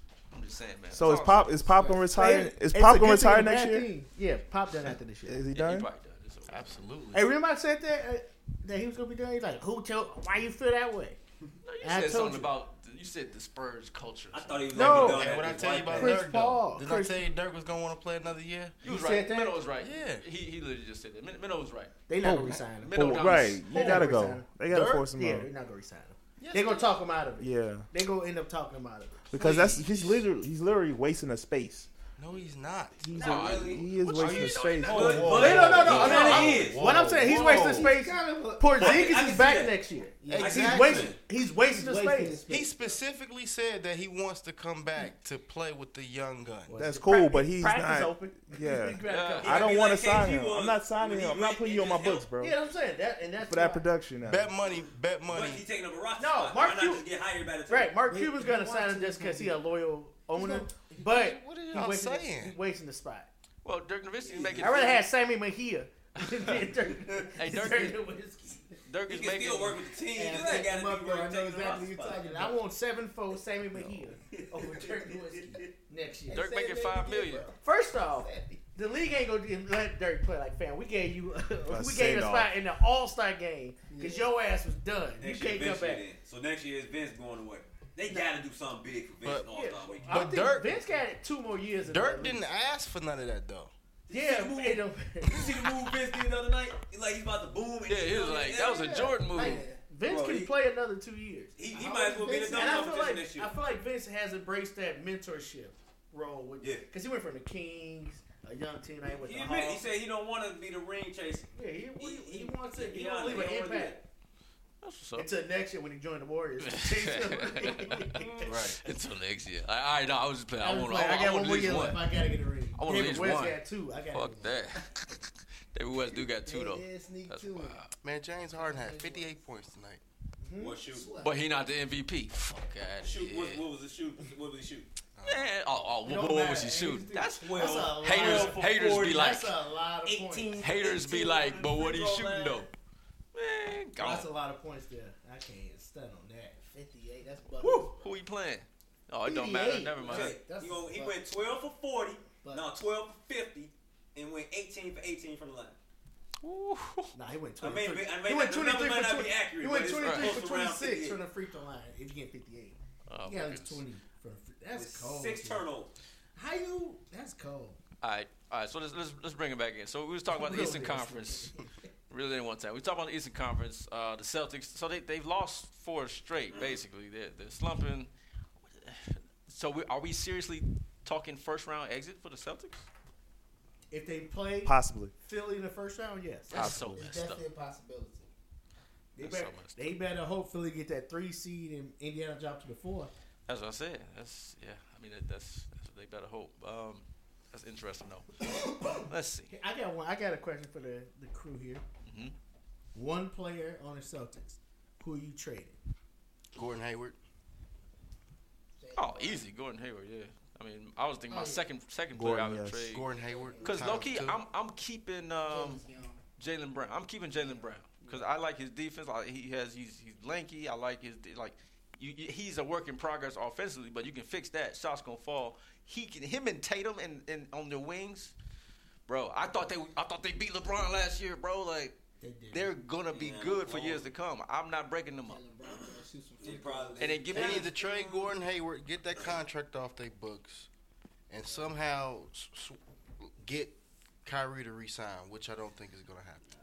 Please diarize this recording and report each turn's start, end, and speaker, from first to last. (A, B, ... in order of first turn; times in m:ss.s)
0:00.3-0:01.6 A
0:00.9-0:03.9 B
0:01.6-0:02.1 C
0:02.1-0:05.4 D
0:05.3-0:05.9 B
0:05.5-0:06.8 A
0:06.5-0:07.3 E
0:07.1-0:11.2 D
0:11.6-0:15.1 A
0:11.8-0:12.5 D
0:14.3-0:16.2 F
0:14.7-0:17.3 D
0:14.8-0:18.8 E
0:18.8-0:21.9 A
0:18.8-0:19.6 D
0:19.8-0:20.2 E
0:22.1-0:30.2 D
0:22.2-0:25.5 B
0:22.8-0:23.7 A
0:23.8-0:24.1 E
0:24.7-0:25.1 E
0:26.4-0:27.0 E
0:27.4-0:27.9 B
0:29.3-0:31.9 B
0:32.2-0:33.2 E
0:33.0-0:35.9 B
0:33.1-0:33.9 F
0:33.2-0:36.6 A
0:34.2-0:38.0 E
0:34.4-0:37.0 F
0:35.2-0:42.4 D
0:37.4-0:39.1 C
0:38.8-0:39.8 F
0:40.2-0:40.8 C
0:40.3-0:41.1 E
0:40.4-0:41.2 F
0:41.6-0:42.8 C
0:42.5-0:46.8 E
0:46.7-0:49.8 D
0:46.8-0:52.6 B
0:49.1-0:49.7 A
0:49.4-0:52.3 F
0:52.4-0:53.9 D
0:53.5-0:54.5 B
0:54.2-0:55.7 E
0:54.6-0:58.0 F
0:56.2-0:57.1 D
0:57.7-1:03.3 D
0:58.0-0:59.6 C
1:00.3-1:01.1 C
1:01.1-1:02.6 E
1:03.6-1:05.0 A
1:04.2-1:05.0 F
1:04.6-1:08.6 D
1:06.2-1:06.7 A
1:07.4-1:08.0 A
1:08.9-1:09.9 A
1:09.1-1:12.2 F
1:10.0-1:12.6 C
1:10.2-1:16.4 D
1:16.3-1:18.6 C
1:16.3-1:17.5 A
1:17.6-1:26.0 D
1:21.7-1:22.5 B
1:23.9-1:24.3 C
1:25.2-1:30.4 F
1:29.2-1:29.5 E
1:29.5-1:32.4 D
1:30.1-1:31.0 E
1:31.9-1:33.7 E
1:34.1-1:39.1 F
1:34.1-1:35.6 D
1:37.9-1:39.7 A
1:38.8-1:39.8 C
1:39.3-1:49.8 D
1:40.0-1:40.5 F
1:41.6-1:43.5 F
1:42.1-1:43.0 C
1:46.6-1:46.8 F
1:49.0-1:54.0 F
1:51.5-1:54.0 D
1:54.8-1:55.3 A
1:55.2-1:58.5 D
1:56.6-2:02.1 A
1:57.8-1:58.6 F
1:58.4-1:58.8 E
2:00.6-2:04.5 D
2:02.8-2:03.6 A
2:04.1-2:07.9 A
2:06.0-2:06.3 F
2:06.4-2:07.8 C
2:08.0-2:10.0 E
2:08.5-2:09.4 C
2:10.4-2:10.8 D
2:10.6-2:11.2 F
2:10.9-2:11.4 C
2:11.2-2:13.6 A
2:13.0-2:14.9 F
2:15.2-2:15.5 E
2:15.3-2:19.5 A
2:16.1-2:20.7 D
2:17.4-2:19.4 F
2:20.0-2:22.7 F
2:20.6-2:22.7 A
2:23.3-2:24.3 A
2:24.0-2:26.6 D
2:26.6-2:28.1 C
2:27.6-2:30.4 A
2:29.2-2:30.2 D
2:30.1-2:31.3 C
2:30.1-2:35.8 F
2:32.4-2:32.9 C
2:36.4-2:37.1 A
2:37.1-2:45.7 D
2:37.6-2:41.2 F
2:40.0-2:40.4 A
2:43.1-2:43.8 A
2:44.7-2:45.9 F
2:46.4-2:47.8 D
2:48.0-2:51.5 A
2:50.3-2:51.6 D
2:52.1-2:58.1 A
2:56.5-2:56.8 F
2:58.6-3:02.9 A
3:03.9-3:06.7 D
3:04.6-3:05.1 B
3:06.5-3:07.5 A
3:06.6-3:08.3 C
3:06.7-3:07.0 B
3:09.2-3:13.1 D
3:09.2-3:09.9 A
3:13.5-3:19.5 A
3:18.6-3:21.8 D
3:22.1-3:22.3 A
3:22.9-3:25.8 D
3:26.5-3:27.2 E
3:28.8-3:29.5 C
3:28.9-3:33.1 A
3:31.3-3:31.7 C
3:32.1-3:33.0 B
3:32.9-3:34.4 E
3:33.1-3:34.2 C
3:33.6-3:35.8 A
3:35.4-3:36.2 C
3:36.4-3:48.3 A
3:37.3-3:38.3 C
3:49.1-3:52.0 A
3:52.2-3:52.7 D
3:52.5-3:55.5 A
3:53.1-3:54.1 F
3:55.3-3:57.5 C
3:55.6-3:57.5 F
3:57.0-3:57.7 A
3:57.3-4:00.7 E
3:57.4-3:58.2 D
4:01.3-4:06.4 E